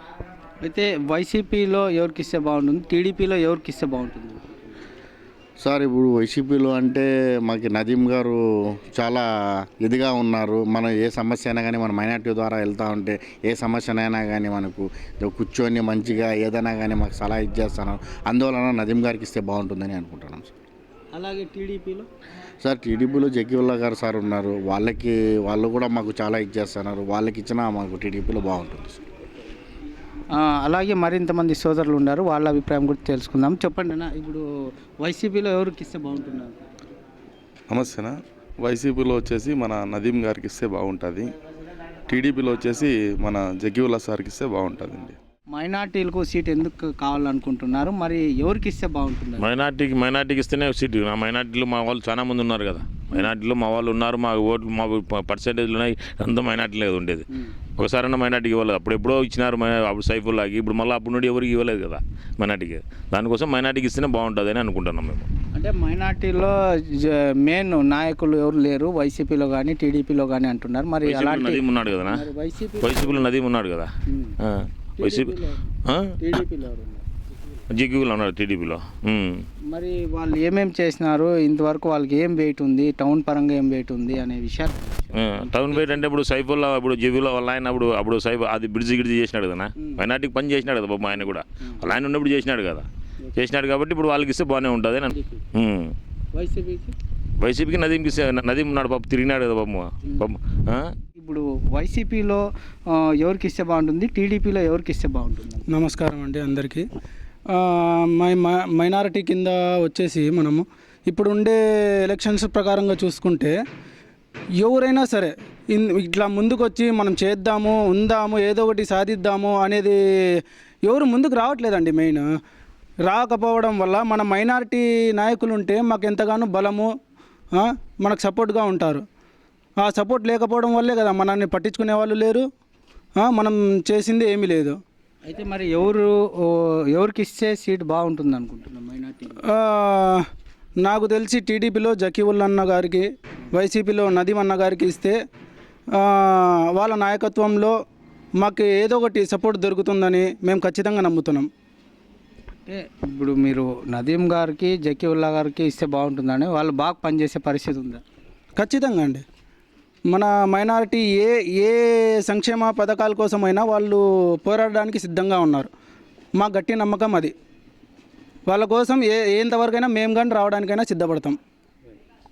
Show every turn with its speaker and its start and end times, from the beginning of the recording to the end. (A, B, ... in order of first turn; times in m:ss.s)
0:00.6-0:04.6 A
0:05.6-0:09.2 B
0:09.8-0:20.5 B
0:21.1-0:22.1 A
0:22.6-0:29.0 B
0:30.4-0:34.4 A
0:35.0-0:36.6 A
0:37.7-0:41.3 C
0:42.1-0:45.1 C
0:45.5-0:49.5 A
0:49.4-0:57.2 D
0:57.8-1:05.3 D
1:05.6-1:13.3 A
1:11.0-1:12.2 D
1:12.8-1:13.9 D
1:14.1-1:14.4 A
1:14.4-1:15.3 D
1:15.0-1:17.0 A
1:17.7-1:19.4 D
1:19.7-1:26.0 A
1:25.2-1:35.9 D
1:36.3-1:37.0 A
1:37.4-1:40.9 D
1:41.2-1:45.6 A
1:45.7-1:46.9 E
1:47.5-1:53.6 E
1:54.6-2:00.0 E
2:00.8-2:02.3 E
2:03.1-2:06.9 E
2:07.6-2:09.1 E
2:09.8-2:12.5 E
2:13.2-2:14.8 E
2:15.3-2:19.4 A
2:19.4-2:20.2 E
2:20.8-2:25.2 E
2:26.0-2:27.8 E
2:28.4-2:31.5 E
2:32.7-2:38.0 A
2:38.6-2:39.2 E
2:40.1-2:45.7 E
2:46.4-2:47.3 E
2:48.5-2:51.4 E